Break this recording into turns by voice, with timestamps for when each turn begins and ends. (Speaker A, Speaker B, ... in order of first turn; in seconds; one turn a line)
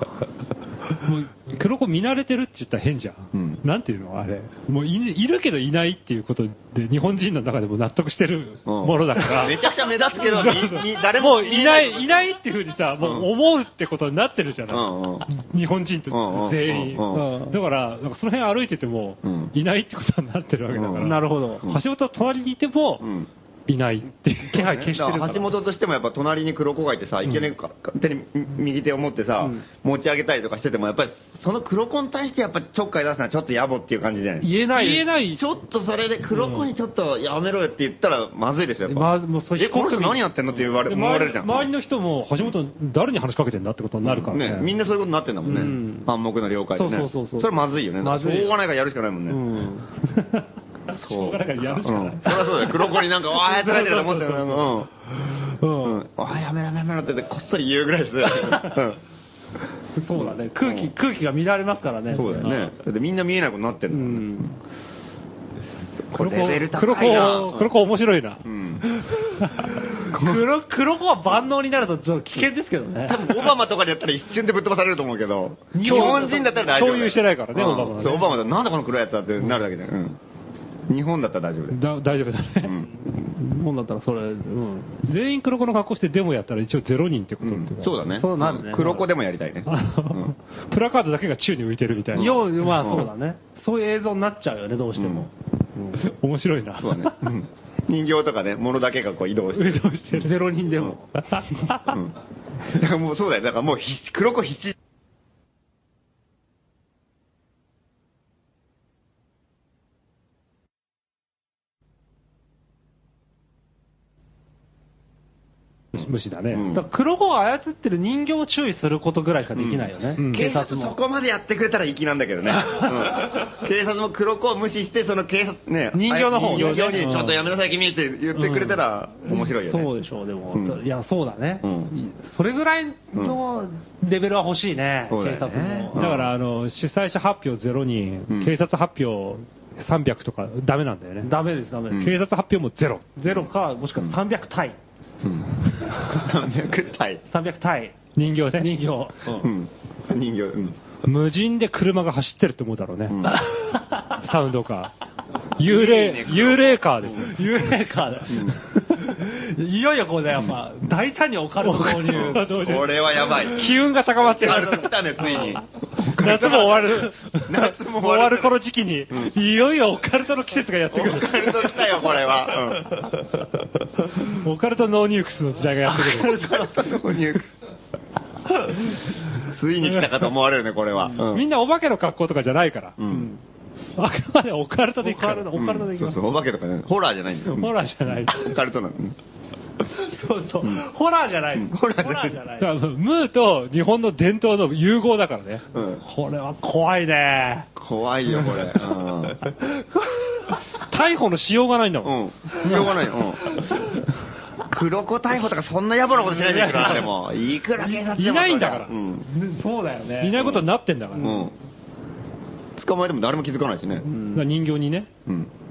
Speaker A: 1.0-23.1
Speaker B: 3.3-3.6
Speaker B: 8.7-12.2
Speaker B: 13.0-13.3
Speaker B: 14.7-15.3
Speaker B: 16.1-17.3
Speaker C: 17.1-17.6
Speaker B: 19.2-19.5
Speaker B: 20.7-21.8
Speaker C: 21.0-21.7
Speaker B: 23.0-23.3
Speaker A: 23.7-24.9
Speaker C: 24.5-25.5
Speaker B: 24.5-34.5
Speaker C: 29.4-29.6
Speaker C: 34.4-35.1
Speaker A: 34.7-35.4
Speaker B: 35.1-41.7
Speaker C: 38.9-40.8
Speaker A: 40.9-44.7
Speaker B: 44.0-49.4
Speaker C: 45.4-46.1
Speaker C: 46.7-48.6
Speaker C: 49.3-50.4
Speaker A: 50.9-52.8
Speaker B: 50.9-54.9
Speaker C: 52.2-54.7
Speaker C: 55.4-56.0
Speaker B: 55.8-59.0
Speaker C: 60.0-62.7
Speaker B: 60.6-60.9
Speaker B: 62.1-64.5
Speaker C: 63.9-64.5
Speaker B: 66.1-67.7
Speaker A: 66.1-68.5
Speaker B: 68.4-68.9
Speaker A: 69.4-69.6
Speaker C: 69.6-73.5
Speaker B: 70.0-70.4
Speaker B: 73.0-80.2
Speaker C: 75.7-76.7
Speaker A: 75.8-78.4
Speaker B: 80.9-81.8
Speaker A: 81.7-82.8
Speaker B: 82.6-82.9
Speaker C: 83.0-85.0
Speaker A: 85.0-88.1
Speaker B: 87.4-90.3
Speaker C: 88.1-89.1
Speaker A: 89.7-92.9
Speaker B: 92.1-93.1
Speaker C: 92.2-96.0
Speaker B: 95.0-95.3
Speaker A: 96.0-97.3
Speaker B: 96.8-100.0
Speaker A: 99.5-100.4
Speaker C: 100.1-101.9
Speaker B: 101.8-104.7
Speaker A: 115.9-116.7
Speaker B: 116.5-116.8
Speaker C: 116.7-121.0
Speaker B: 119.5-129.9
Speaker A: 120.2-120.4
Speaker C: 125.9-127.4
Speaker A: 126.3-127.4
Speaker C: 128.3-136.0
Speaker B: 130.5-130.8
Speaker B: 131.6-131.9
Speaker B: 135.1-136.3
Speaker A: 135.9-141.3
Speaker B: 138.3-138.5
Speaker C: 141.2-142.2
Speaker B: 141.9-142.2
Speaker A: 141.9-143.1
Speaker C: 143.2-144.8
Speaker B: 143.3-144.2
Speaker B: 145.2-147.2
Speaker C: 147.3-148.0
Speaker A: 148.1-148.8
Speaker C: 148.6-149.5
Speaker B: 149.3-150.8
Speaker A: 151.0-153.2
Speaker B: 153.1-153.5
Speaker C: 153.2-154.2
Speaker A: 154.0-154.9
Speaker A: 155.6-157.8
Speaker B: 155.6-157.3
Speaker C: 157.2-162.5
Speaker B: 158.3-158.6
Speaker A: 161.6-172.1
Speaker B: 162.1-168.5
Speaker B: 170.9-173.1
Speaker A: 174.2-176.5
Speaker C: 175.9-176.8
Speaker B: 176.1-177.5
Speaker B: 179.3-181.4
Speaker A: 181.2-183.0
Speaker B: 183.0-183.3
Speaker C: 183.1-183.4
Speaker A: 184.0-185.6
Speaker C: 185.0-186.2
Speaker B: 185.5-189.2
Speaker A: 187.4-188.4
Speaker C: 189.9-192.7
Speaker B: 191.5-192.4
Speaker A: 192.6-195.7
Speaker B: 195.7-196.0
Speaker C: 196.0-197.7
Speaker B: 197.8-199.6
Speaker A: 200.7-203.0
Speaker B: 202.0-203.5
Speaker C: 202.6-203.9
Speaker B: 204.7-209.3
Speaker A: 206.3-207.1
Speaker A: 207.8-208.9
Speaker C: 209.2-210.4
Speaker A: 210.2-211.5
Speaker B: 210.3-211.5
Speaker B: 212.8-214.1
Speaker C: 214.0-214.4
Speaker A: 214.3-215.1
Speaker B: 215.2-215.5